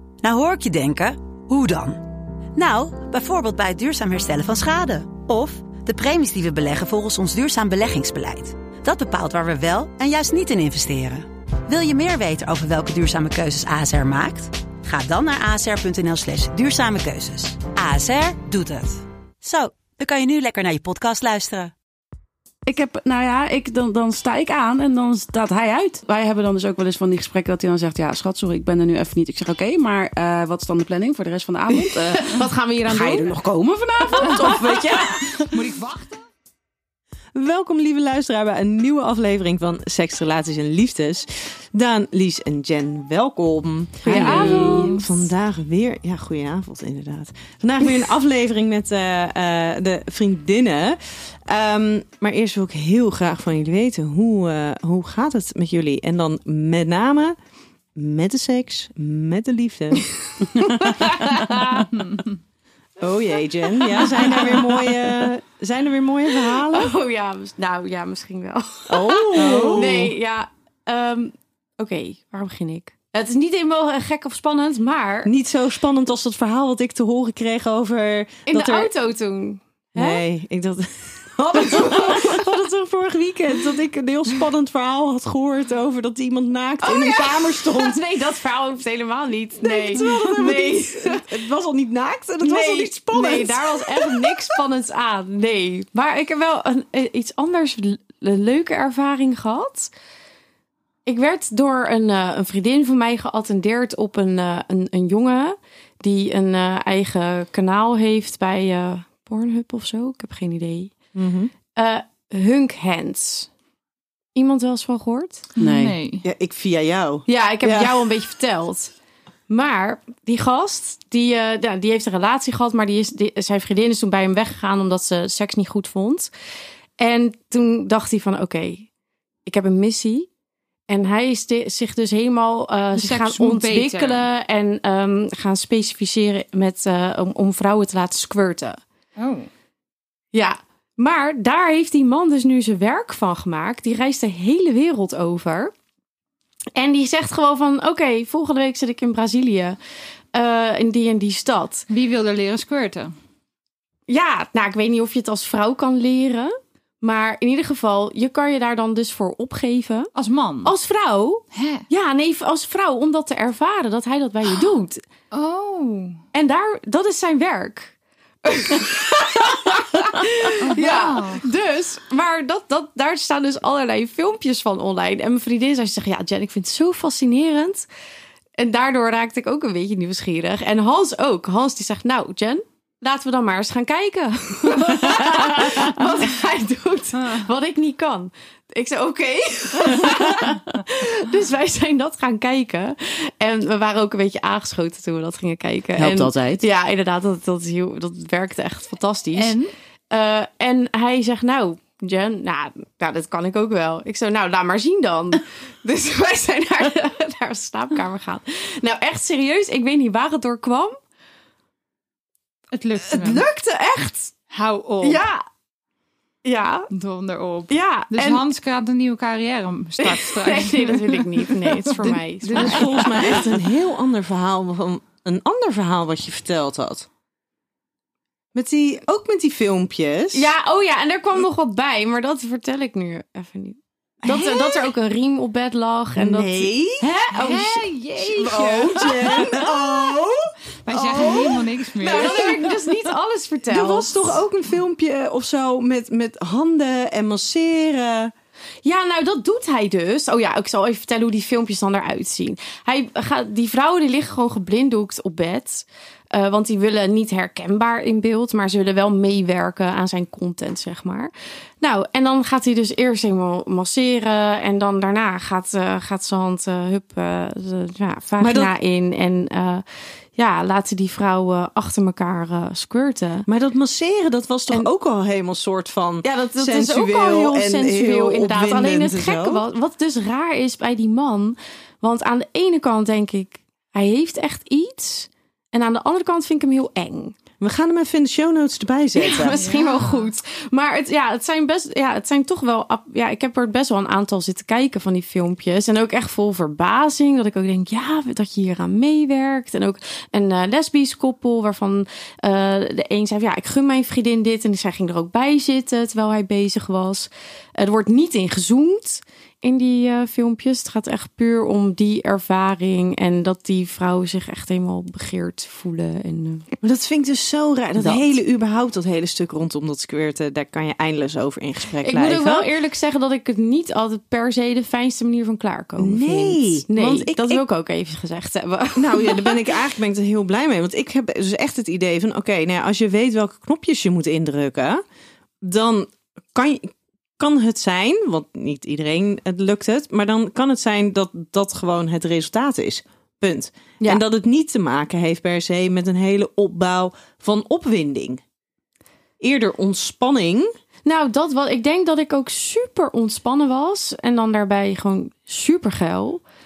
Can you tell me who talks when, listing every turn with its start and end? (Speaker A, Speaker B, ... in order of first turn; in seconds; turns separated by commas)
Speaker A: 0.2-2.0, Speaker A: 2.5-21.7, Speaker B: 22.6-35.5, Speaker C: 31.7-33.3, Speaker C: 34.1-35.0, Speaker D: 35.4-36.2, Speaker E: 37.3-57.4, Speaker C: 44.0-44.9, Speaker D: 44.0-45.1, Speaker E: 58.0-60.1, Speaker C: 60.5-61.9, Speaker E: 63.0-66.9, Speaker C: 63.8-64.9, Speaker C: 66.4-75.3, Speaker E: 68.9-70.1, Speaker E: 75.2-78.9, Speaker C: 78.5-80.2, Speaker E: 79.9-88.0, Speaker C: 81.6-82.4, Speaker C: 86.8-91.3, Speaker E: 89.6-94.6, Speaker C: 92.4-99.9, Speaker C: 101.0-110.9, Speaker E: 111.1-111.5, Speaker C: 111.7-113.5, Speaker C: 114.3-115.5, Speaker D: 115.6-116.2, Speaker B: 115.6-116.0, Speaker E: 116.2-118.1, Speaker C: 117.3-118.9, Speaker C: 119.5-126.3, Speaker C: 127.0-128.9, Speaker C: 129.4-130.3, Speaker C: 130.9-138.8, Speaker D: 132.9-134.2, Speaker D: 139.2-139.5, Speaker C: 140.3-145.7, Speaker C: 146.8-149.8, Speaker C: 150.3-151.8, Speaker D: 151.9-153.1, Speaker C: 154.1-160.1, Speaker D: 160.1-160.7, Speaker C: 160.6-165.0, Speaker D: 161.5-161.9, Speaker D: 165.3-166.2, Speaker C: 166.3-167.9, Speaker C: 168.4-177.9, Speaker D: 170.6-171.4, Speaker C: 178.6-199.6, Speaker B: 195.9-196.6, Speaker D: 199.3-199.7, Speaker C: 200.1-210.9, Speaker D: 212.7-213.4, Speaker C: 213.1-214.3, Speaker D: 214.5-215.2, Speaker C: 215.0-215.4, Speaker C: 216.4-216.9, Speaker D: 216.9-223.4, Speaker C: 217.7-218.4, Speaker C: 220.0-223.4, Speaker E: 222.5-227.1, Speaker E: 228.5-230.5, Speaker C: 230.3-237.8, Speaker E: 234.2-234.9, Speaker E: 236.2-237.1, Speaker D: 237.3-239.1, Speaker E: 238.3-242.6, Speaker C: 238.4-239.1, Speaker D: 240.8-242.8, Speaker C: 242.0-244.1, Speaker E: 243.7-248.3, Speaker C: 248.8-273.5, Speaker E: 268.4-268.7, Speaker E: 273.5-279.6, Speaker C: 276.2-287.4, Speaker E: 287.6-289.6, Speaker C: 289.1-316.7, Speaker D: 289.5-290.3, Speaker E: 316.8-322.7, Speaker C: 322.0-329.7, Speaker E: 326.0-327.6, Speaker E: 328.9-335.0, Speaker E: 335.6-348.4, Speaker E: 349.4-350.7, Speaker C: 351.0-356.4